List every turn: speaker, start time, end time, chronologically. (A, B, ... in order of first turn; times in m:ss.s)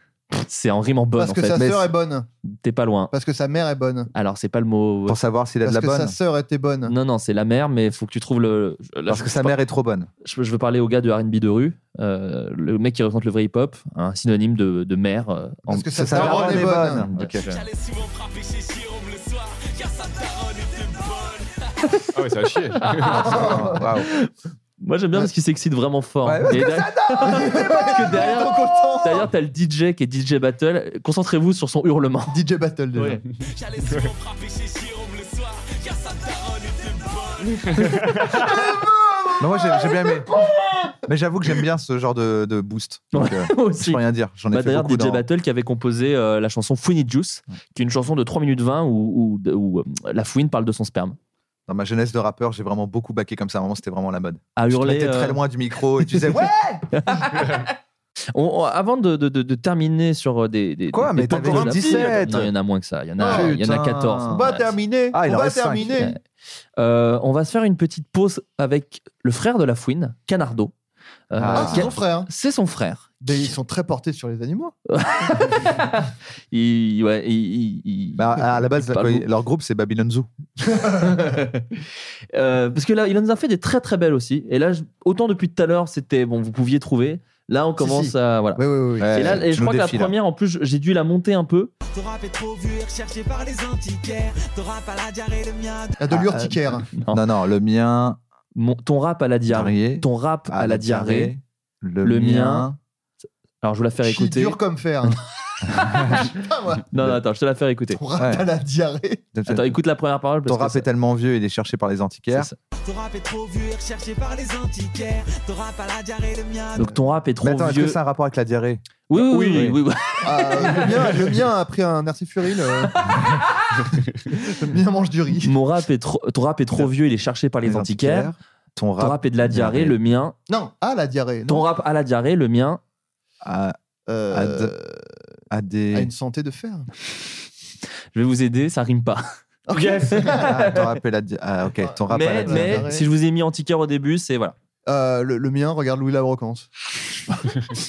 0:00.3-0:01.7 A
0:01.2-0:02.3 B
0:01.5-0:01.9 C
0:02.4-0:03.1 A
0:03.1-0:04.1 B
0:04.1-0:05.2 A
0:05.1-0:06.2 C
0:05.6-0:07.0 B
0:06.9-0:09.6 A
0:09.1-0:10.1 C
0:10.2-0:17.6 A
0:15.7-0:17.1 B
0:15.9-0:17.5 C
0:17.4-0:21.9 D
0:22.2-0:23.2 E
0:22.8-0:32.4 A
0:23.1-0:24.1 C
0:23.2-0:23.8 B
0:26.2-0:27.5 C
0:27.2-0:29.3 B
0:32.3-0:33.2 B
0:33.0-0:33.2 A
0:33.5-0:37.8 D
0:37.6-0:38.6 E
0:38.3-0:40.9 B
0:39.4-0:40.3 C
0:41.1-0:45.2 C
0:43.1-0:51.2 A
0:51.7-0:56.9 C
0:54.6-0:55.4 A
0:56.9-0:57.7 A
0:58.3-1:04.6 A
1:00.9-1:02.5 C
1:01.5-1:02.1 B
1:03.2-1:03.6 B
1:03.2-1:04.6 C
1:04.3-1:06.2 B
1:05.1-1:06.1 C
1:06.8-1:10.7 A
1:11.3-1:13.5 A
1:11.4-1:11.9 C
1:11.6-1:12.3 B
1:13.2-1:14.8 B
1:14.9-1:19.2 A
1:18.2-1:20.3 C
1:21.0-1:21.8 A
1:22.3-1:28.6 A
1:27.8-1:29.3 B
1:29.0-1:30.2 C
1:29.1-1:31.7 A
1:31.9-1:36.0 D
1:36.0-1:36.9 B
1:36.1-1:36.6 C
1:36.9-1:37.2 A
1:37.1-1:38.2 C
1:38.6-1:41.3 A
1:39.5-1:42.8 C
1:42.0-1:42.7 A
1:43.6-1:45.2 A
1:44.0-1:45.2 B
1:45.6-1:46.3 C
1:45.8-1:46.3 A
1:46.1-1:46.8 B
1:46.9-1:48.0 A
1:47.9-1:49.2 B
1:48.2-1:48.5 C
1:49.3-1:49.8 C
1:49.5-1:50.8 A
1:50.5-1:52.5 C
1:52.3-1:52.6 A
1:52.8-1:56.8 D
1:56.8-1:58.0 A
1:57.4-1:59.8 C
1:59.1-2:01.1 A
1:59.3-1:59.7 E
2:00.2-2:03.3 B
2:03.1-2:03.4 A
2:04.4-2:05.5 B
2:05.4-2:08.3 A
2:07.6-2:10.0 C
2:09.0-2:10.4 A
2:10.5-2:11.7 B
2:11.5-2:12.8 A
2:13.4-2:13.8 C
2:14.1-2:15.0 B
2:14.3-2:14.7 C
2:15.5-2:16.1 C
2:15.9-2:16.9 B
2:18.1-2:19.2 A
2:19.7-2:20.7 B
2:19.7-2:20.3 E
2:20.1-2:20.9 A
2:20.4-2:22.9 C
2:21.8-2:23.1 B
2:22.1-2:24.6 A
2:24.9-2:27.5 B